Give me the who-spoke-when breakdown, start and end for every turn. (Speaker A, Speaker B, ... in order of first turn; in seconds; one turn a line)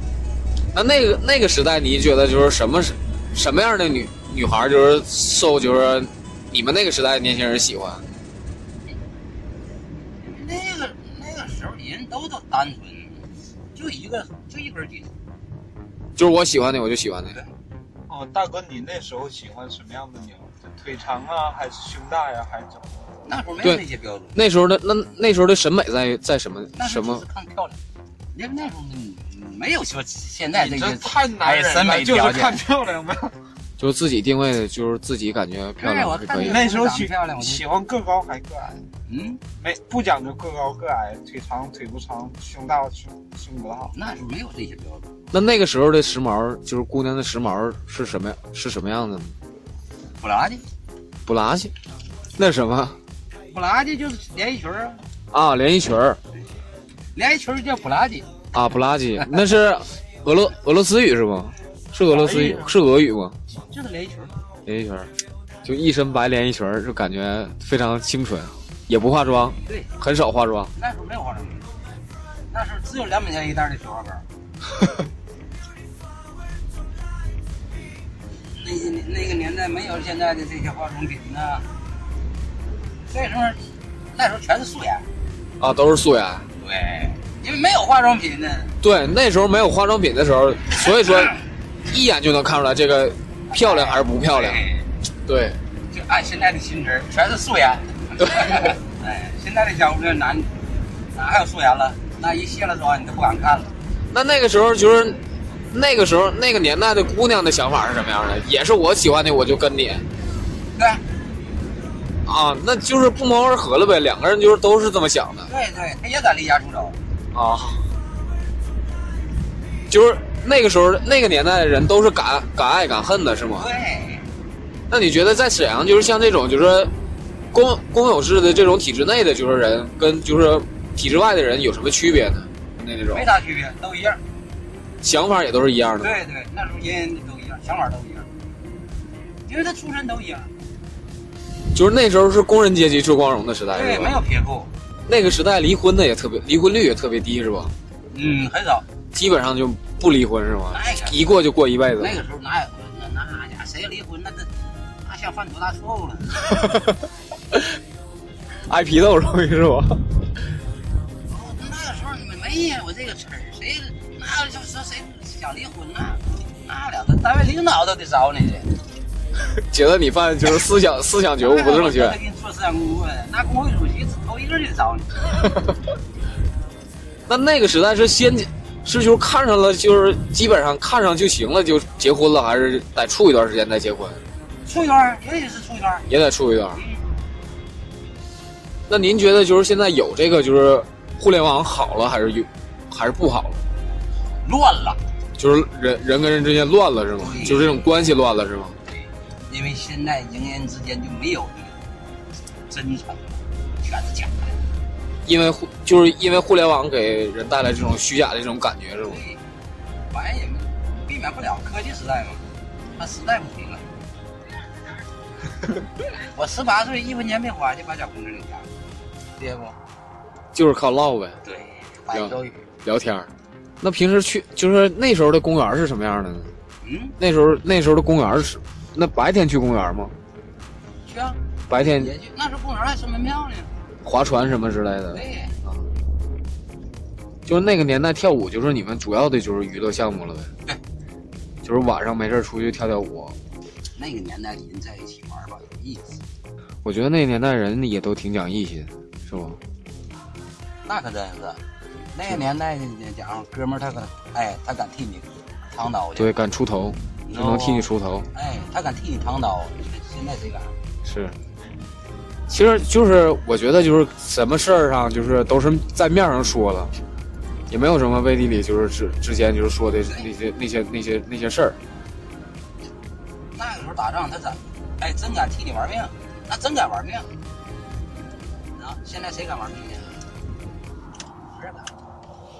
Speaker A: 0.7-8.0
Speaker B: 10.2-15.1
Speaker A: 16.1-17.4
Speaker C: 18.1-23.0
Speaker B: 23.2-24.4
Speaker A: 23.6-27.2
Speaker B: 26.7-27.8
Speaker B: 28.3-32.6
Speaker C: 30.5-33.4
Speaker A: 33.8-36.6
Speaker B: 35.8-37.6
Speaker C: 36.5-38.8
Speaker B: 39.0-39.4
Speaker C: 39.6-43.9
Speaker B: 43.9-45.1
Speaker A: 45.3-49.3
Speaker B: 50.2-50.6
Speaker A: 51.2-51.7
Speaker A: 52.4-53.0
Speaker B: 53.5-55.0
Speaker A: 55.3-56.2
Speaker B: 57.1-58.4
Speaker A: 58.5-63.4
Speaker B: 59.2-59.4
Speaker B: 62.3-62.6
Speaker B: 63.6-64.3
Speaker A: 64.7-65.1
Speaker A: 65.6-70.7
Speaker B: 69.7-69.9
Speaker B: 70.7-71.7
Speaker B: 72.5-74.2
Speaker B: 78.5-81.7
Speaker B: 83.1-83.6
Speaker B: 84.1-85.1
Speaker A: 85.6-86.5
Speaker B: 86.6-88.8
Speaker A: 88.8-94.6
Speaker B: 93.5-94.9
Speaker A: 95.2-95.6
Speaker B: 95.9-103.7
Speaker A: 104.1-110.1
Speaker B: 110.7-111.0
Speaker A: 112.2-115.5
Speaker B: 115.5-117.0
Speaker A: 117.3-117.8
Speaker A: 119.9-123.7
Speaker B: 123.5-124.3
Speaker A: 124.9-126.9
Speaker A: 127.5-133.2
Speaker B: 133.1-134.2
Speaker A: 135.0-136.2
Speaker B: 136.0-138.3
Speaker B: 139.4-140.5
Speaker A: 141.7-144.2
Speaker B: 143.7-144.7
Speaker A: 145.1-147.7
Speaker B: 148.1-148.8
Speaker A: 149.1-152.2
Speaker B: 150.7-151.2
Speaker B: 152.0-154.5
Speaker B: 155.0-156.6
Speaker A: 156.5-157.0
Speaker A: 158.7-160.1
Speaker B: 161.3-168.8
Speaker A: 169.4-172.2
Speaker B: 171.4-175.5
Speaker A: 177.3-184.2
Speaker B: 184.6-186.1
Speaker A: 186.1-186.8
Speaker B: 186.7-187.1
Speaker A: 188.9-193.6
Speaker B: 194.4-195.0
Speaker A: 195.4-198.8
Speaker B: 197.2-198.0
Speaker B: 198.9-201.8
Speaker B: 202.7-204.6
Speaker A: 205.2-209.2
Speaker B: 209.0-209.4
Speaker B: 210.1-212.4
Speaker B: 212.9-213.9
Speaker B: 216.1-218.8
Speaker B: 219.4-219.8
Speaker A: 220.5-221.4
Speaker B: 221.4-222.7
Speaker A: 222.1-223.3
Speaker A: 223.8-226.5
Speaker B: 226.8-227.2
Speaker A: 227.2-230.1
Speaker B: 231.0-233.7
Speaker A: 231.7-232.1
Speaker A: 234.0-235.8
Speaker B: 235.1-235.5
Speaker A: 237.4-240.5
Speaker A: 241.6-243.4
Speaker B: 243.9-246.2
Speaker A: 246.8-249.6
Speaker B: 250.8-251.6
Speaker B: 252.1-256.3
Speaker A: 256.2-258.3
Speaker B: 257.2-260.7
Speaker A: 261.0-261.4
Speaker A: 262.5-266.9
Speaker A: 267.7-271.8
Speaker B: 270.0-270.3
Speaker B: 273.5-277.3
Speaker B: 278.7-280.2
Speaker B: 281.4-281.9